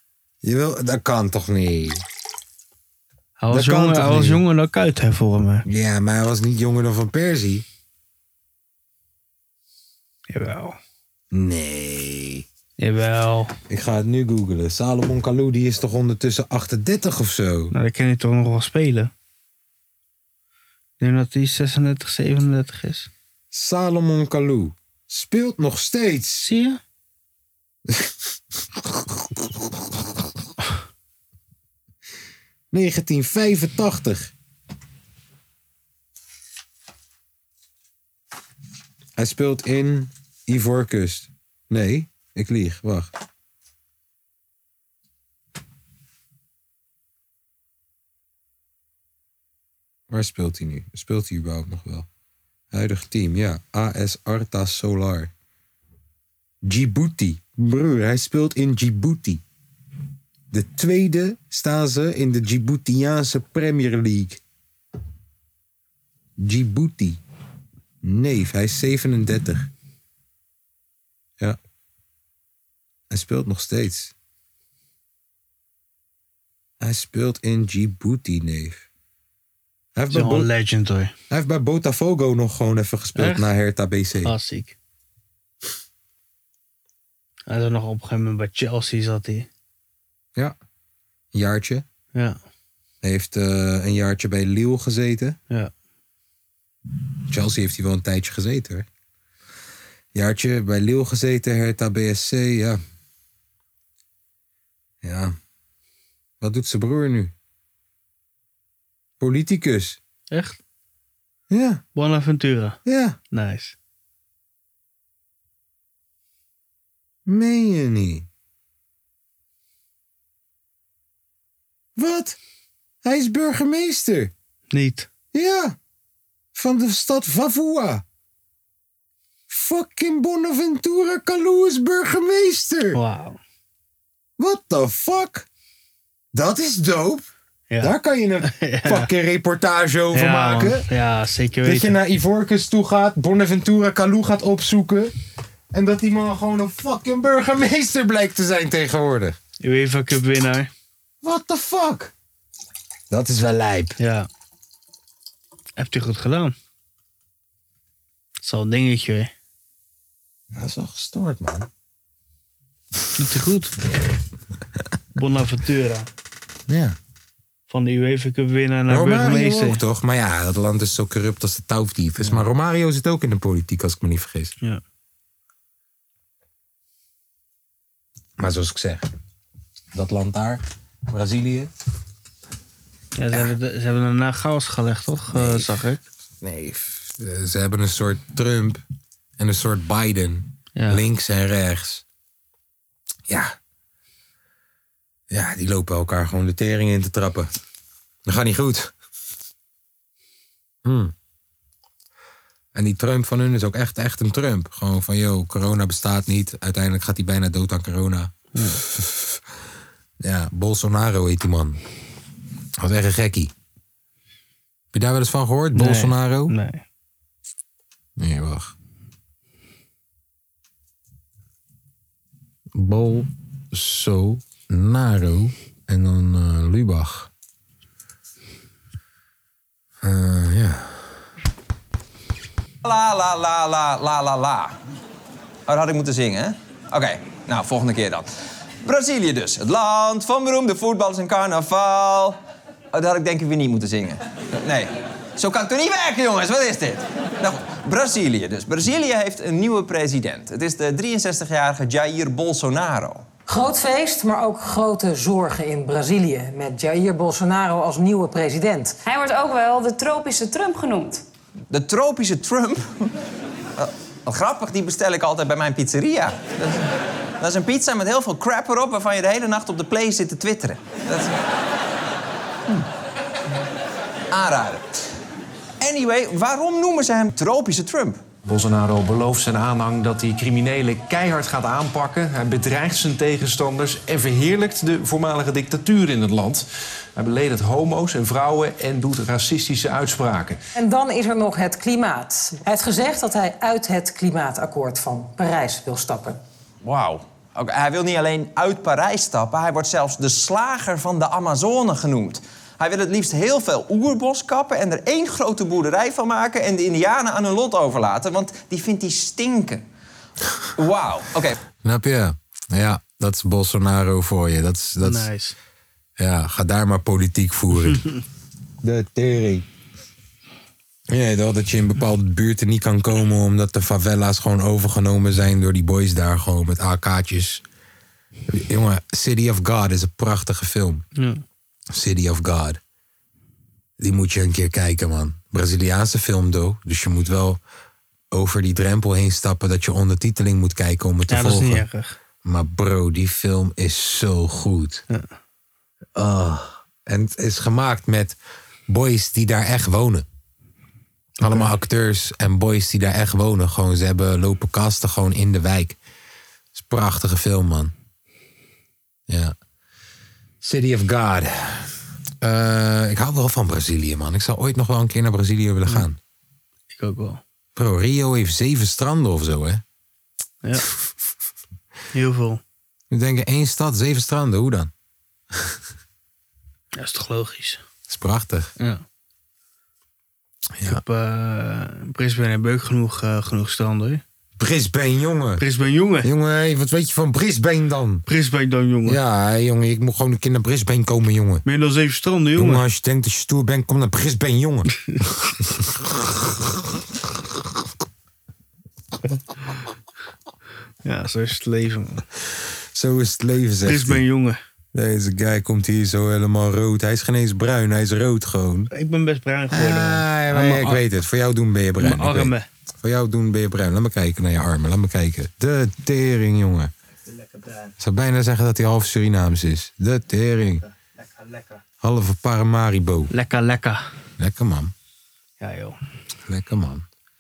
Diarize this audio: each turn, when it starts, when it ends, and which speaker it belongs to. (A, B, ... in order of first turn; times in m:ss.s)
0:00.4-0:02.0 A
0:03.4-0:05.7 B
0:03.5-0:04.4 A
0:05.7-0:07.6 A
0:10.3-0:10.8 B
0:11.3-0:12.5 A
0:12.8-0:13.6 B
0:13.7-0:17.7 A
0:17.7-0:19.1 B
0:21.0-0:23.1 B
0:23.5-0:26.4 A
0:26.4-0:26.8 B
0:27.9-0:28.1 A
0:32.7-0:34.3 A
0:39.2-0:43.1 A
0:50.1-0:52.1 A
0:52.7-0:55.3 A
0:56.6-0:59.4 A
1:00.5-1:04.4 A
1:06.4-1:07.2 A
1:08.0-1:09.7 A
1:13.1-1:14.1 A
1:16.8-1:18.9 A
1:20.0-1:20.5 A
1:20.1-1:21.1 B
1:21.3-1:24.3 A
1:23.2-1:23.5 B
1:24.2-1:24.8 B
1:27.5-1:29.5 B
1:31.3-1:31.8 A
1:33.0-1:35.4 A
1:37.3-1:38.9 A
1:40.1-1:42.8 A
1:45.0-1:45.4 A
1:46.4-1:47.3 A
1:49.2-1:50.0 A
1:50.3-1:50.6 B
1:51.5-1:51.8 A
1:52.0-1:52.8 B
1:52.8-1:53.2 A
1:53.3-1:53.8 B
1:57.3-1:58.3 A
2:02.0-2:02.4 A
2:03.0-2:04.3 A
2:04.7-2:05.1 B
2:05.3-2:05.8 A
2:06.5-2:08.0 A
2:09.5-2:13.0 A
2:12.9-2:13.4 B
2:14.4-2:15.5 A
2:16.3-2:17.3 A
2:17.8-2:20.8 A
2:18.4-2:19.1 B
2:20.1-2:22.0 B
2:21.6-2:25.1 A
2:25.7-2:29.4 A
2:29.6-2:30.7 B
2:31.2-2:32.1 A
2:33.1-2:34.0 A
2:34.0-2:34.3 B
2:35.8-2:36.6 B
2:38.4-2:39.3 B
2:40.5-2:41.7 A
2:43.2-2:43.7 B
2:45.2-2:46.1 B
2:46.7-2:47.0 A
2:47.7-2:49.8 B
2:48.9-2:54.5 A
2:58.4-2:59.1 A
2:59.9-3:01.7 A
3:03.2-3:06.0 B
3:05.3-3:05.8 A
3:06.4-3:08.8 A
3:09.4-3:12.0 A
3:10.8-3:11.0 B
3:13.3-3:13.5 A
3:15.3-3:17.5 A
3:18.3-3:18.9 A
3:20.8-3:21.1 A
3:22.8-3:29.4 A
3:28.6-3:28.8 B
3:30.2-3:31.8 A
3:32.8-3:33.5 A
3:34.9-3:36.5 A
3:35.7-3:36.8 B
3:38.2-3:38.7 A
3:42.7-3:47.3 A
3:50.0-3:51.2 A
3:52.8-3:54.8 C
3:55.7-3:58.3 C
3:58.8-4:02.4 C
4:02.9-4:13.2 C
4:13.5-4:19.0 D
4:19.1-4:21.2 E
4:21.7-4:23.1 C
4:23.8-4:26.9 C
4:27.4-4:31.4 C
4:34.3-4:34.9 C
4:35.8-4:38.3 C
4:38.4-4:46.6 F
4:47.2-4:50.6 F
4:50.8-4:56.4 D
4:56.8-5:09.8 C
5:10.8-5:11.6 C
5:11.8-5:15.3 A
5:15.0-5:15.6 B
5:16.2-5:18.0 A
5:17.9-5:18.2 B
5:18.8-5:19.7 A
5:21.1-5:27.6 A
5:28.5-5:31.0 A
5:31.2-5:31.4 B
5:31.9-5:32.8 A
5:34.0-5:37.6 A
5:38.3-5:41.8 A
5:41.3-5:42.2 B
5:42.4-5:45.0 A
5:46.2-5:48.4 A
5:48.9-5:50.3 A
5:51.4-5:56.0 A
5:51.4-5:51.7 B
5:56.7-5:57.9 A
5:59.3-5:59.6 A
6:00.6-6:01.9 A
6:02.4-6:06.2 A
6:06.9-6:07.4 B
6:07.8-6:09.8 A
6:12.1-6:12.6 B
6:13.1-6:14.9 A
6:17.0-6:17.8 B
6:18.1-6:18.7 A
6:20.8-6:21.0 A
6:20.8-6:24.2 B
6:24.6-6:25.6 A
6:25.6-6:26.3 B
6:26.2-6:28.2 A
6:28.3-6:29.2 B
6:29.1-6:31.6 A
6:31.6-6:32.8 B
6:32.6-6:34.9 A
6:35.5-6:36.7 A
6:41.0-6:42.2 B
6:42.9-6:44.2 A
6:43.8-6:44.6 B
6:44.9-6:48.9 A
6:48.9-6:51.0 B
6:49.7-6:56.9 A
6:52.0-6:52.7 B
6:57.3-6:57.9 B
6:58.0-7:00.8 A
7:01.2-7:01.8 B
7:02.0-7:03.3 A
7:03.3-7:04.0 B
7:04.4-7:04.9 A
7:05.6-7:06.0 B
7:06.5-7:07.0 A